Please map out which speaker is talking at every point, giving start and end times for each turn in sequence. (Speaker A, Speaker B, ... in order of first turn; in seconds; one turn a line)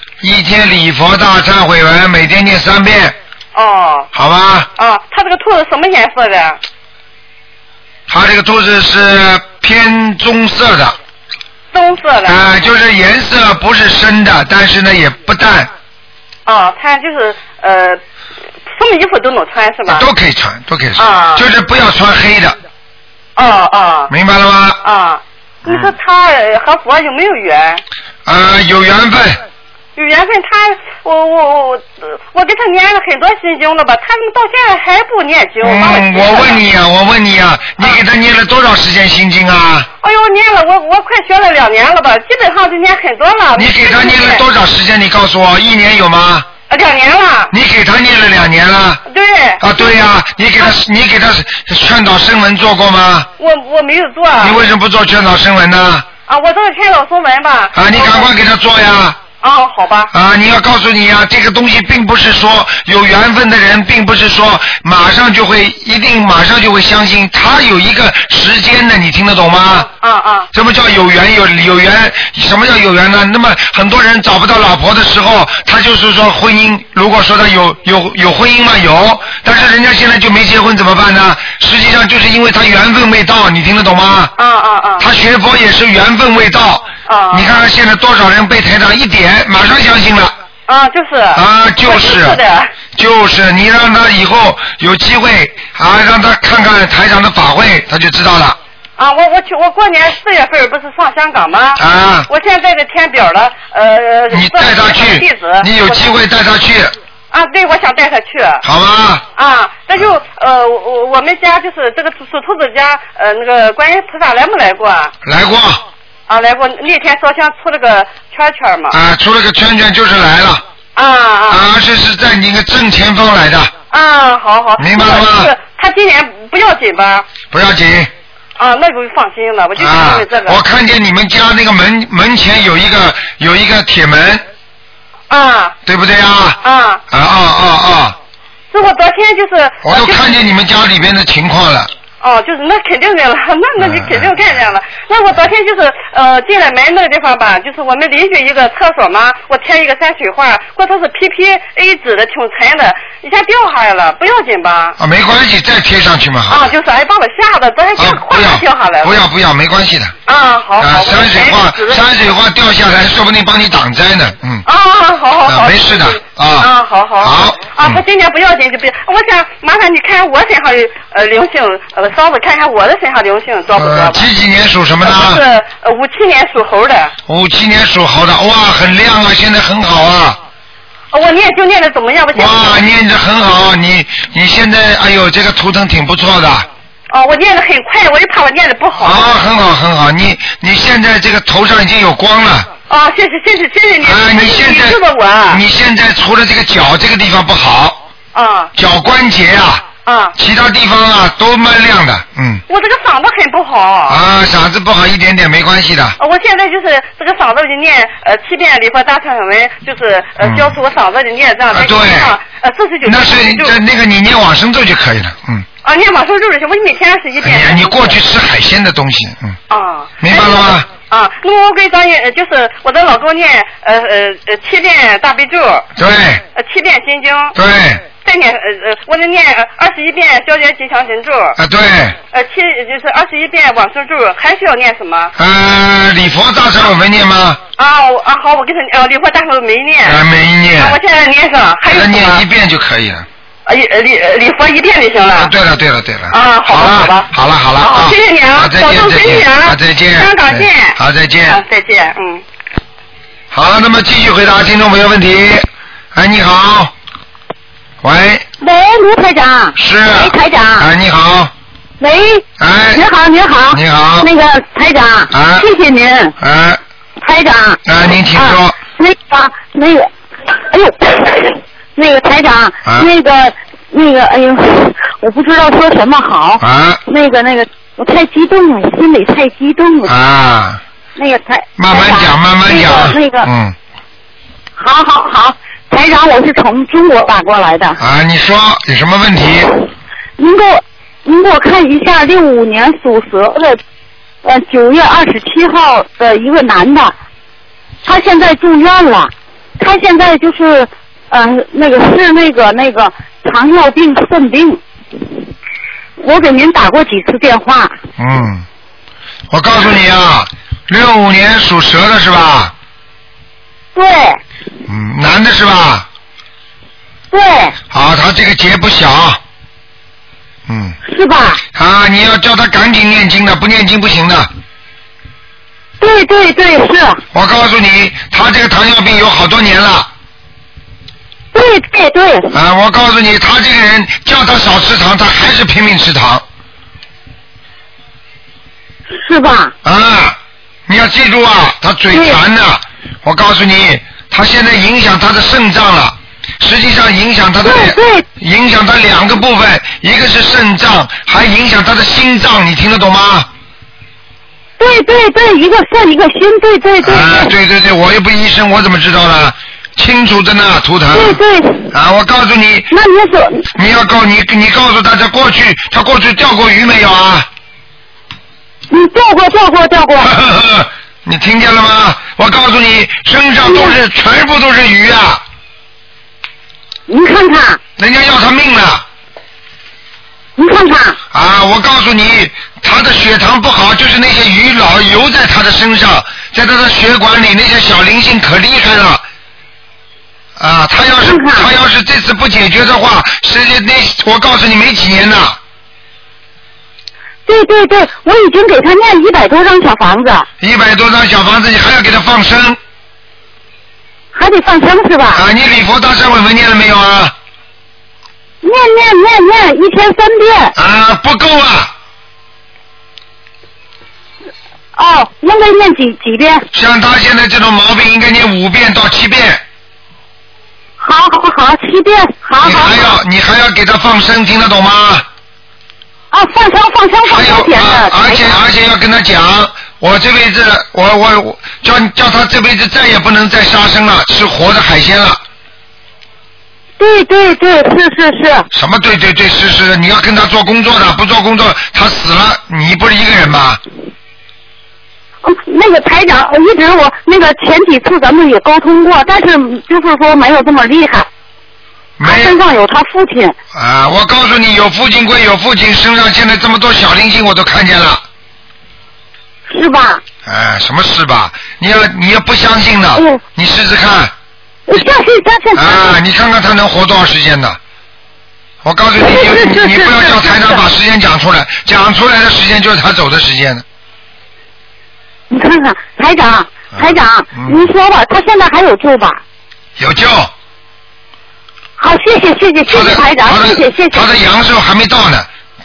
Speaker A: 0.2-3.1
Speaker B: 3.5-4.1
Speaker A: 4.1-4.7
Speaker B: 4.8-6.6
Speaker A: 8.1-11.0
Speaker B: 11.7-12.4
Speaker A: 12.2-15.7
Speaker B: 16.4-18.0
Speaker B: 18.7-20.1
Speaker A: 19.9-22.6
Speaker B: 20.9-21.5
Speaker B: 23.4-24.1
Speaker A: 24.1-24.8
Speaker B: 24.8-27.8
Speaker A: 25.6-25.9
Speaker A: 28.2-29.4
Speaker B: 29.9-36.6
Speaker A: 35.6-39.9
Speaker B: 40.0-44.4
Speaker A: 43.5-46.5
Speaker B: 46.7-47.5
Speaker A: 47.5-49.0
Speaker B: 49.1-49.9
Speaker A: 49.6-53.3
Speaker B: 53.4-54.6
Speaker A: 54.4-56.0
Speaker B: 56.2-58.3
Speaker A: 57.7-59.2
Speaker B: 59.4-60.1
Speaker A: 60.1-69.9
Speaker B: 69.7-70.5
Speaker A: 70.5-84.3
Speaker B: 84.4-85.1
Speaker A: 85.0-90.3
Speaker B: 87.0-87.6
Speaker B: 90.7-92.7
Speaker A: 91.3-92.4
Speaker A: 92.9-98.6
Speaker B: 99.0-106.2
Speaker A: 101.8-102.3
Speaker A: 104.3-106.9
Speaker B: 107.3-108.6
Speaker A: 108.6-109.2
Speaker B: 109.3-115.1
Speaker A: 115.2-115.8
Speaker B: 116.3-119.0
Speaker A: 118.9-120.6
Speaker B: 121.0-121.6
Speaker A: 121.5-123.7
Speaker B: 123.9-127.2
Speaker A: 124.8-125.5
Speaker A: 127.5-128.1
Speaker B: 128.6-130.6
Speaker A: 129.8-134.4
Speaker B: 135.3-135.8
Speaker A: 135.8-138.2
Speaker B: 136.6-137.0
Speaker B: 138.7-140.4
Speaker A: 139.8-141.9
Speaker B: 142.2-154.9
Speaker A: 143.8-144.6
Speaker A: 155.0-156.7
Speaker B: 156.5-159.2
Speaker A: 158.0-160.1
Speaker B: 160.2-162.0
Speaker A: 160.8-164.6
Speaker B: 164.6-174.3
Speaker A: 165.4-168.0
Speaker A: 173.7-175.4
Speaker B: 175.0-177.1
Speaker A: 177.3-180.4
Speaker B: 181.1-182.8
Speaker A: 182.3-186.7
Speaker B: 187.1-189.3
Speaker A: 189.0-192.7
Speaker B: 192.9-195.6
Speaker A: 194.0-198.0
Speaker B: 198.3-198.7
Speaker A: 198.7-202.6
Speaker B: 200.0-200.3
Speaker B: 202.7-204.2
Speaker A: 204.1-206.2
Speaker B: 206.2-213.8
Speaker A: 210.4-210.8
Speaker A: 211.7-212.4
Speaker A: 213.0-215.7
Speaker B: 215.8-218.2
Speaker A: 217.4-219.6
Speaker B: 219.7-225.9
Speaker A: 220.2-220.8
Speaker A: 226.0-226.4
Speaker B: 226.5-227.5
Speaker A: 227.5-228.0
Speaker B: 228.1-231.6
Speaker A: 231.6-232.2
Speaker B: 232.3-235.3
Speaker A: 235.3-237.6
Speaker B: 237.8-240.2
Speaker A: 240.0-241.0
Speaker B: 240.8-242.4
Speaker A: 241.8-243.2
Speaker B: 243.7-245.5
Speaker A: 245.3-251.6
Speaker B: 246.3-252.4
Speaker A: 253.5-256.9
Speaker A: 258.0-258.4
Speaker C: 258.6-260.9
Speaker A: 259.8-261.5
Speaker C: 262.0-266.3
Speaker A: 262.6-263.0
Speaker A: 263.7-264.3
Speaker A: 265.3-265.7
Speaker A: 266.4-266.8
Speaker C: 267.2-267.8
Speaker A: 267.9-268.8
Speaker C: 268.3-280.1
Speaker A: 276.6-277.0
Speaker A: 280.1-280.8
Speaker C: 281.1-283.5
Speaker A: 281.8-283.7
Speaker C: 284.8-288.0
Speaker A: 288.0-289.7
Speaker C: 290.4-293.8
Speaker C: 294.4-297.1
Speaker C: 298.0-304.8
Speaker C: 306.2-308.0
Speaker A: 308.2-308.6
Speaker A: 309.5-312.7
Speaker C: 313.9-314.4
Speaker A: 314.9-316.1
Speaker C: 317.3-317.8
Speaker A: 317.9-319.4
Speaker A: 320.7-320.9
Speaker C: 321.0-321.6
Speaker A: 321.7-324.5
Speaker C: 326.0-327.2
Speaker A: 327.3-330.1
Speaker C: 331.5-332.5
Speaker A: 332.5-336.4
Speaker C: 339.1-339.7
Speaker A: 339.8-353.5
Speaker C: 342.1-342.4
Speaker C: 347.6-348.2
Speaker C: 354.8-357.5
Speaker A: 357.0-362.9
Speaker C: 361.1-361.9
Speaker C: 362.9-363.7
Speaker A: 363.7-367.5
Speaker C: 368.9-370.3
Speaker A: 370.2-375.4
Speaker C: 373.6-374.0
Speaker C: 377.1-377.8
Speaker A: 378.0-379.0
Speaker C: 380.6-381.2
Speaker A: 381.3-389.2
Speaker A: 390.6-395.6
Speaker C: 391.0-391.7
Speaker C: 397.5-400.5
Speaker A: 400.6-402.8
Speaker C: 404.3-405.4
Speaker A: 405.3-407.3
Speaker C: 408.6-410.8
Speaker A: 410.7-411.9
Speaker C: 414.9-416.6
Speaker A: 416.7-419.6
Speaker C: 421.0-423.2
Speaker A: 422.6-425.2
Speaker C: 426.3-428.6
Speaker A: 427.3-435.4
Speaker C: 437.0-438.7
Speaker A: 438.7-443.8
Speaker C: 445.4-451.3
Speaker A: 452.2-452.6
Speaker C: 452.2-453.6
Speaker A: 453.7-458.2
Speaker C: 459.7-460.2
Speaker A: 460.4-464.3
Speaker C: 463.1-463.4
Speaker C: 464.9-466.2
Speaker A: 465.7-467.8
Speaker A: 468.8-473.8
Speaker C: 469.2-470.9
Speaker C: 475.5-479.4
Speaker A: 476.9-477.9
Speaker A: 480.0-480.5
Speaker C: 482.0-484.3
Speaker A: 482.9-485.5